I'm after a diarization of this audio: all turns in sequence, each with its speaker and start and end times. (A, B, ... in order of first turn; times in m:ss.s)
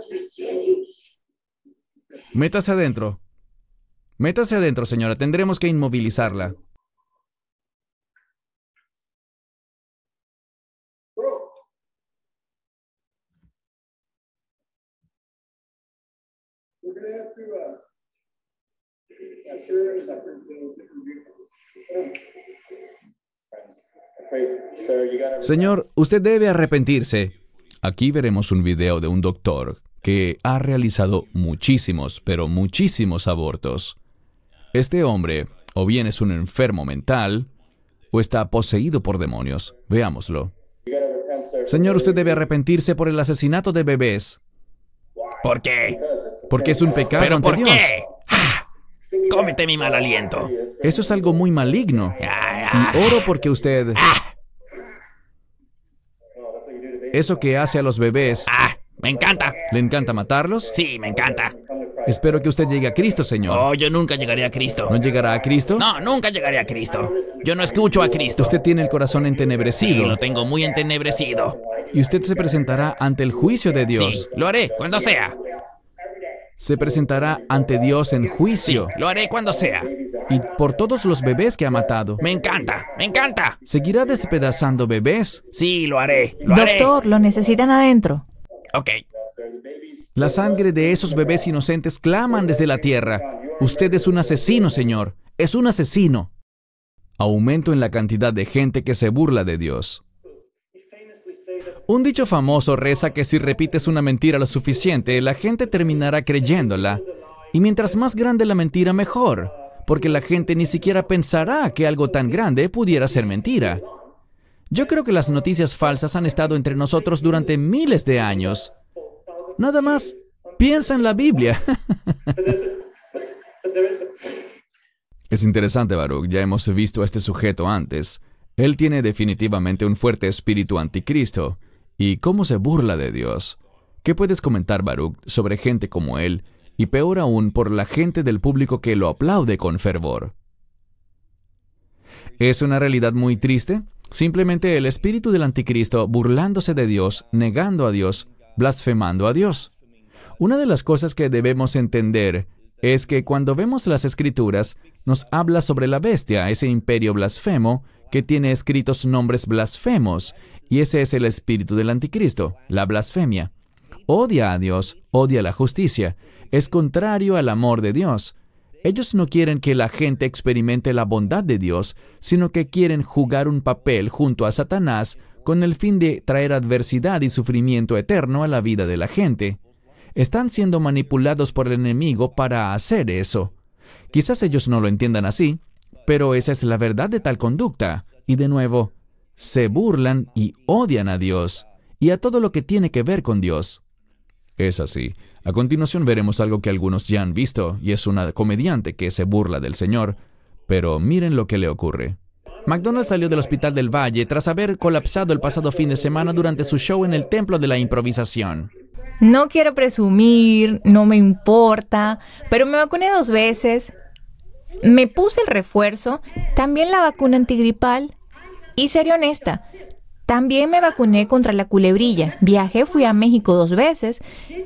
0:02.3-0:03.2 A
0:04.2-0:06.6 A
0:25.4-0:34.0 A
0:34.7-0:37.5 A
0:38.1-0:40.5 A
0:41.6-0:44.4 A
0:45.4-0:46.0 B
0:46.5-0:48.0 A
0:47.2-0:48.6 B
0:49.3-0:50.5 B
0:50.8-0:52.2 A
0:52.2-0:53.2 B
0:52.7-0:54.1 A
0:54.0-0:54.2 B
0:57.1-0:58.5 A
0:58.4-0:59.6 B
0:59.7-1:00.7 A
1:00.7-1:01.6 B
1:02.0-1:03.6 A
1:03.5-1:04.9 B
1:04.9-1:05.8 A
1:05.8-1:08.6 B
1:08.4-1:10.2 A
1:09.8-1:11.6 B
1:11.9-1:14.2 A
1:13.9-1:15.4 B
1:16.6-1:18.9 A
1:18.6-1:19.9 B
1:20.3-1:22.2 A
1:22.2-1:23.6 B
1:23.6-1:25.5 A
1:25.5-1:26.9 B
1:26.5-1:28.2 C
1:28.7-1:29.0 B
1:30.1-1:36.3 A
1:37.2-1:40.0 A
1:41.9-1:53.8 A
1:54.7-1:58.7 A
1:59.6-2:02.5 A
2:05.3-2:20.3 A
2:22.4-2:29.7 A
2:30.4-2:43.5 A
2:44.1-2:59.6 A
3:00.1-3:03.5 A
3:04.1-3:13.8 A
3:14.6-3:28.7 A
3:29.2-3:33.9 C
3:34.8-3:38.1 C
3:38.8-3:39.6 C
3:40.3-3:44.2 C